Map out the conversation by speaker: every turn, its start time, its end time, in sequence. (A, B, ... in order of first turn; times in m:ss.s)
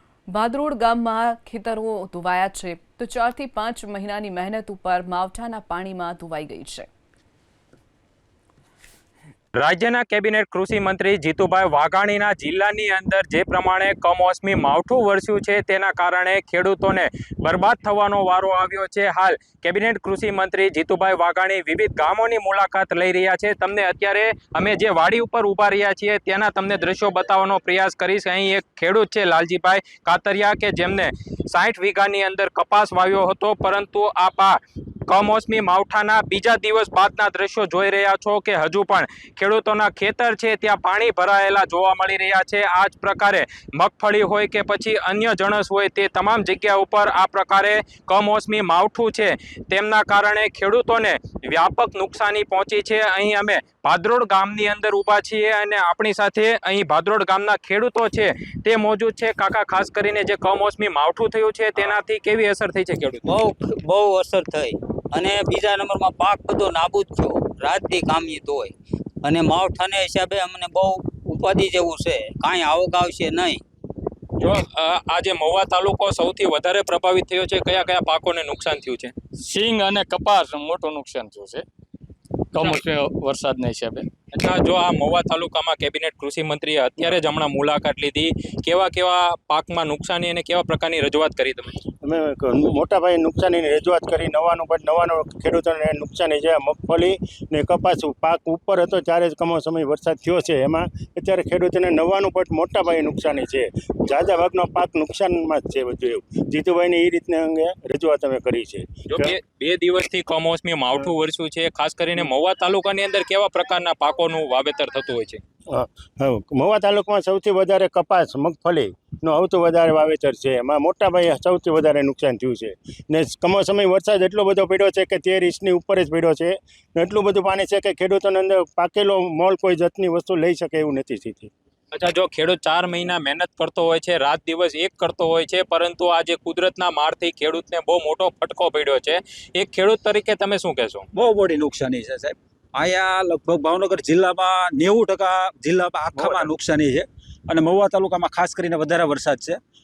0:00.3-0:06.9 A
0:09.6-1:03.3 B
1:03.2-1:13.6 C
1:14.4-1:19.1 B
1:19.4-1:21.6 D
1:22.5-1:24.1 D
1:24.3-1:31.8 B
1:32.0-1:49.3 E
1:49.1-1:55.4 B
1:55.7-2:11.5 E
2:11.9-2:21.1 B
2:21.1-2:29.6 F
2:26.1-2:26.5 E